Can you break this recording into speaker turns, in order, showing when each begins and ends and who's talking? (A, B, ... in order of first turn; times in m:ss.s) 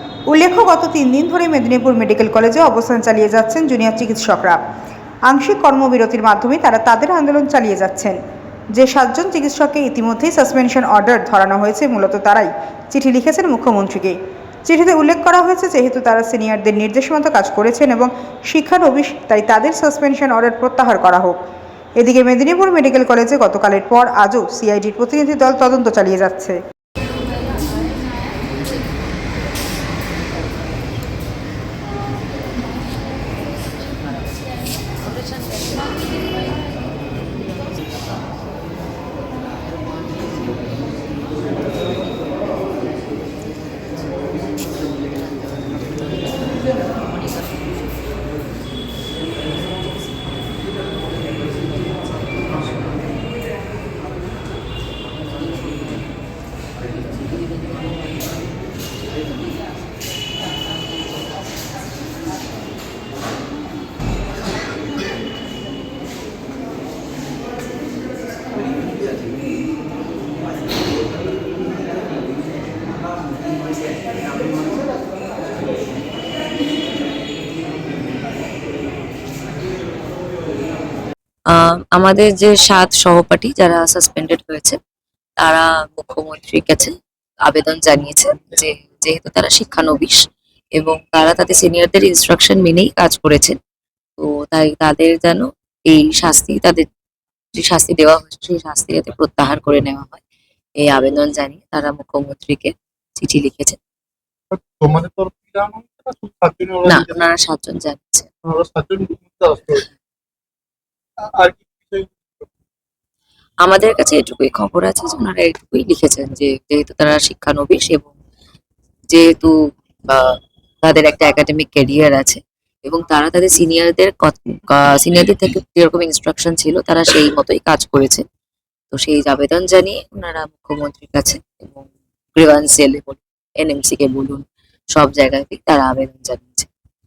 0:00.3-0:04.6 A
0:05.3-0:08.2 A
0:08.7-0:21.4 A
0:22.0-0:26.6 A
1:21.5-1:24.8 B
1:25.4-1:26.9 B
1:27.5-1:30.2 B
1:30.8-1:33.6 B
1:34.2-1:36.8 B
1:37.6-1:40.2 B
1:40.8-1:43.8 B
1:44.5-1:47.2 C
1:46.9-1:48.3 B
1:48.4-1:49.9 C
1:51.3-1:52.6 C
1:53.6-1:58.2 B
1:59.1-1:59.5 B
2:00.1-2:08.2 B
2:08.9-2:14.4 B
2:15.0-2:16.7 B